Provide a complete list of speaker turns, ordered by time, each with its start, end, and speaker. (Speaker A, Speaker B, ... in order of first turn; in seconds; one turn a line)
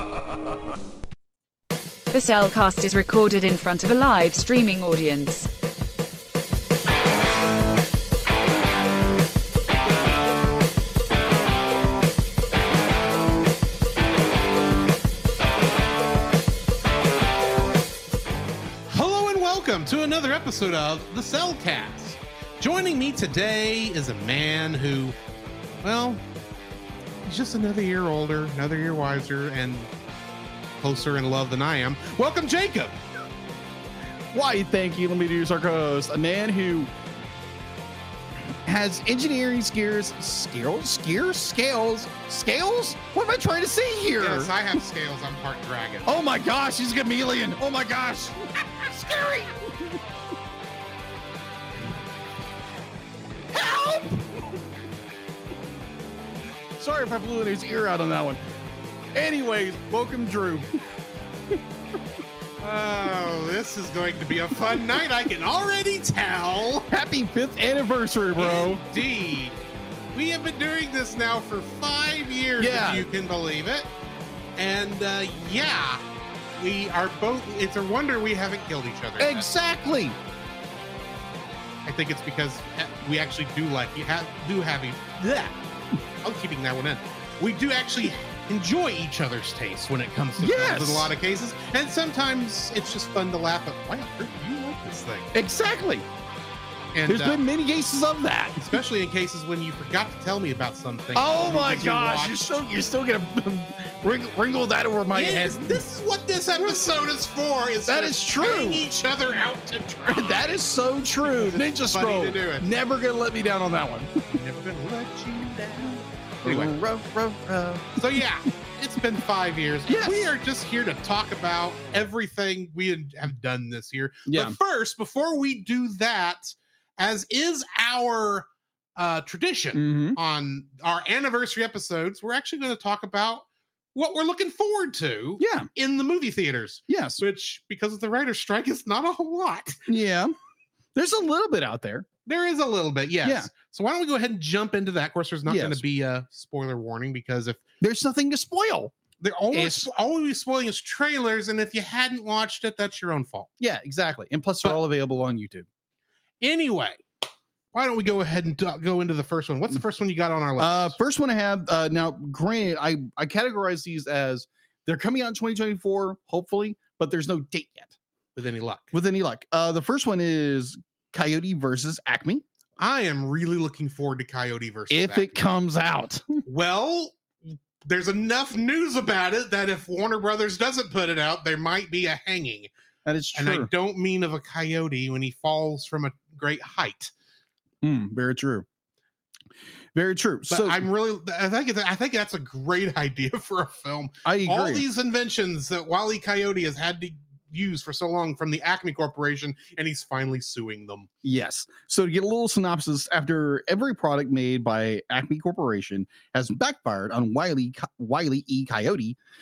Speaker A: 2.1-5.5
Speaker B: 18.9-25.1
Speaker B: 25.8-26.2
Speaker B: 27.2-29.9
Speaker B: 30.8-33.0
Speaker C: 34.3-36.9
Speaker C: 38.6-44.5
Speaker B: 44.2-46.2
Speaker C: 46.0-50.0
Speaker C: 53.5-54.6
Speaker C: 56.8-58.4
Speaker C: 59.1-60.8
Speaker B: 62.6-66.9
Speaker C: 66.9-68.8
Speaker B: 68.3-69.6
Speaker B: 70.1-73.9
Speaker C: 72.6-73.1
Speaker B: 74.6-76.0
Speaker B: 76.5-79.5
Speaker C: 79.2-80.2
Speaker B: 81.8-85.5
Speaker B: 86.2-95.3
Speaker C: 90.4-91.1
Speaker C: 95.3-96.1
Speaker B: 96.9-97.4
Speaker C: 97.0-98.8
Speaker B: 98.6-102.3
Speaker C: 101.1-105.8
Speaker B: 105.1-110.6
Speaker C: 107.9-108.8
Speaker C: 110.1-114.2
Speaker B: 111.2-112.7
Speaker B: 114.3-116.7
Speaker C: 116.4-118.2
Speaker B: 118.0-133.4
Speaker C: 119.9-120.2
Speaker C: 124.3-124.6
Speaker C: 129.7-130.2
Speaker B: 133.9-139.8
Speaker C: 135.4-135.7
Speaker C: 136.9-137.2
Speaker C: 139.9-140.3
Speaker C: 140.9-142.1
Speaker B: 142.2-147.6
Speaker C: 143.2-143.5
Speaker C: 145.4-145.8
Speaker C: 147.8-148.9
Speaker B: 149.2-153.5
Speaker C: 149.5-149.9
Speaker C: 153.6-155.7
Speaker B: 156.4-157.0
Speaker B: 157.7-161.0
Speaker C: 160.6-167.9
Speaker B: 168.3-168.9
Speaker C: 168.9-172.4
Speaker B: 172.8-175.4
Speaker C: 174.9-176.4
Speaker B: 176.4-182.7
Speaker C: 183.0-183.7
Speaker B: 183.3-187.1
Speaker C: 187.8-188.7
Speaker C: 189.9-190.8
Speaker B: 190.5-201.1
Speaker C: 194.2-194.8
Speaker C: 201.2-209.2